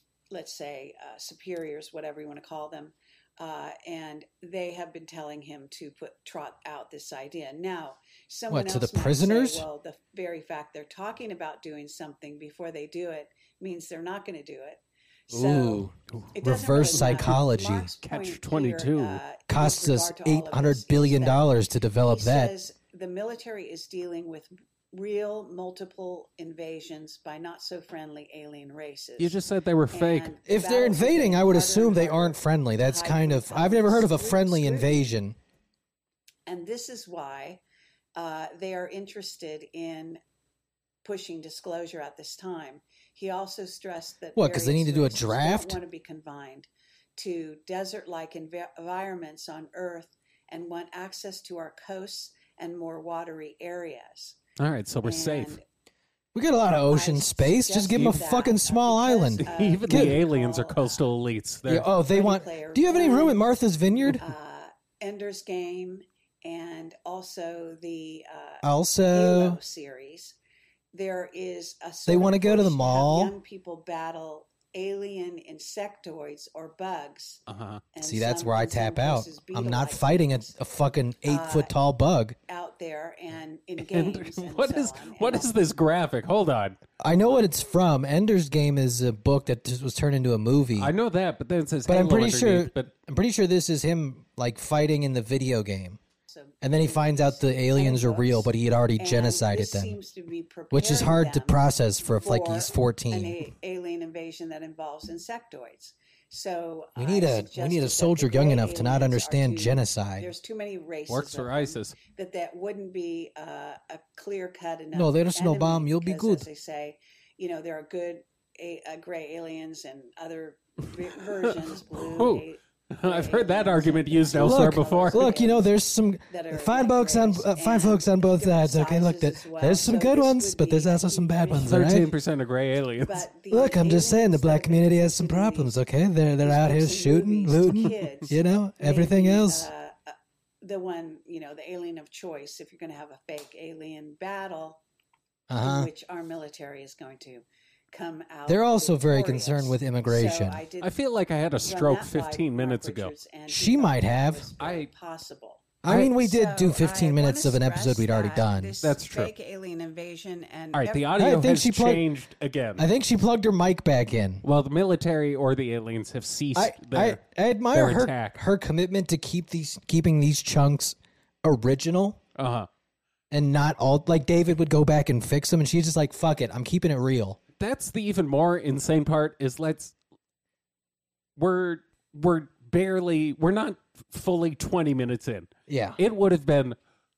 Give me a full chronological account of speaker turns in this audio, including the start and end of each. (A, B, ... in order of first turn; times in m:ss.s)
0:00.3-0:21.5 A
0:08.5-0:09.7 B
0:15.3-0:17.9 B
0:16.8-0:17.4 C
0:18.0-0:19.2 C
0:19.5-0:22.6 B
0:22.0-0:29.4 A
0:29.2-0:30.4 C
0:29.9-0:35.1 A
0:30.4-0:35.4 B
0:36.5-0:37.6 A
0:38.2-0:40.2 A
0:41.0-0:54.4 A
0:44.4-0:45.8 B
0:54.6-0:55.6 C
0:55.0-0:55.6 A
0:56.3-1:00.2 B
0:56.9-1:01.0 A
0:57.9-0:58.2 C
0:59.4-1:01.9 C
1:01.7-1:04.3 B
1:02.0-1:03.4 A
1:04.1-1:10.4 A
1:08.6-1:09.6 B
1:10.9-1:20.5 A
1:12.1-1:13.4 B
1:17.5-1:17.8 C
1:18.0-1:22.4 B
1:21.2-1:21.7 A
1:22.5-1:25.5 A
1:23.8-1:26.8 C
1:27.0-1:30.9 B
1:30.8-1:32.9 C
1:31.9-1:36.0 B
1:36.3-2:05.7 A
1:36.6-1:40.0 B
1:40.7-1:43.4 B
1:47.0-1:50.3 B
1:51.1-1:52.0 C
1:55.0-1:56.4 B
2:01.4-2:05.4 C
2:04.4-2:12.1 B
2:06.3-2:12.0 A
2:11.6-2:13.3 C
2:13.0-2:15.7 A
2:13.5-2:19.7 B
2:16.4-2:24.8 A
2:25.5-2:25.9 B
2:25.6-2:30.9 A
2:28.5-2:30.6 B
2:30.8-2:33.1 C
2:31.6-2:41.2 A
2:33.5-2:34.5 B
2:34.6-2:34.9 C
2:35.8-2:38.7 B
2:38.8-2:39.3 C
2:40.7-2:42.9 C
2:41.2-2:42.1 B
2:42.8-2:44.4 B
2:44.4-2:47.2 C
2:46.6-2:52.2 B
2:47.7-2:48.4 C
2:52.4-2:52.7 C
2:53.3-2:57.4 B
2:57.6-2:59.9 C
3:01.4-3:06.8 C
3:05.7-3:06.0 B